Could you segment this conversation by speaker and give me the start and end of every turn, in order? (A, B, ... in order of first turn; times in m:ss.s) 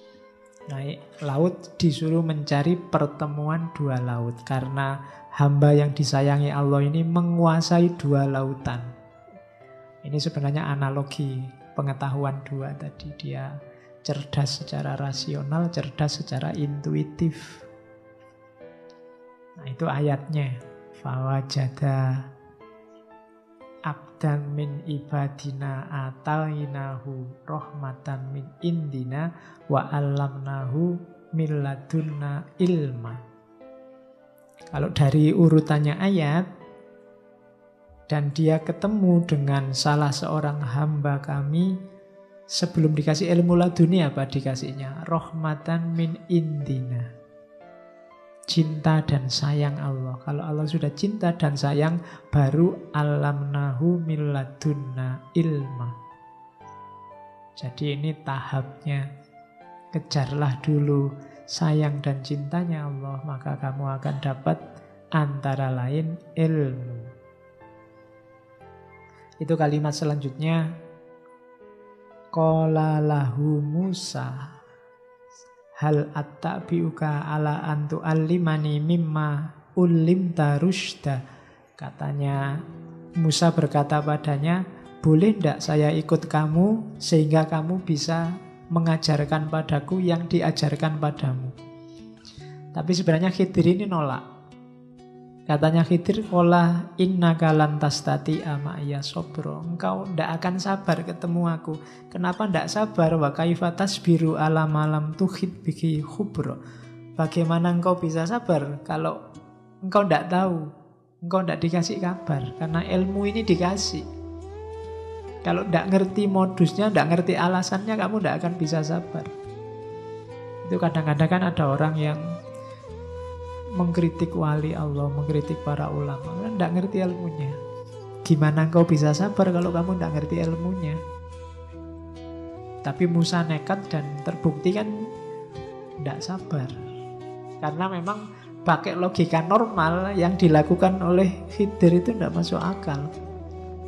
0:00.7-0:08.9 A
0:10.0-0:13.5 A
0:14.0-0:17.6 A
0:19.6-0:22.1 A
0:23.9-0:33.2 A
0:34.7-0:36.4 A
0:38.1-0:41.7 A
0:42.5-0:47.1 A
0:48.5-0:55.9 A
0:57.6-0:59.0 A
0:59.9-1:04.6 A
1:05.2-1:07.1 A
1:09.4-1:10.6 A
1:12.3-1:14.5 A
1:15.8-1:21.2 A
1:21.8-1:22.4 A
1:23.2-1:31.5 A
1:32.7-1:34.2 A
1:35.5-1:46.6 A
1:47.2-1:49.2 A
1:49.8-1:50.7 A
1:51.2-1:54.0 A
1:55.4-1:59.3 A
2:00.6-2:02.2 A
2:03.8-2:07.6 A
2:08.2-2:11.0 A
2:12.8-2:14.9 A
2:16.0-2:16.7 A
2:17.6-2:23.1 A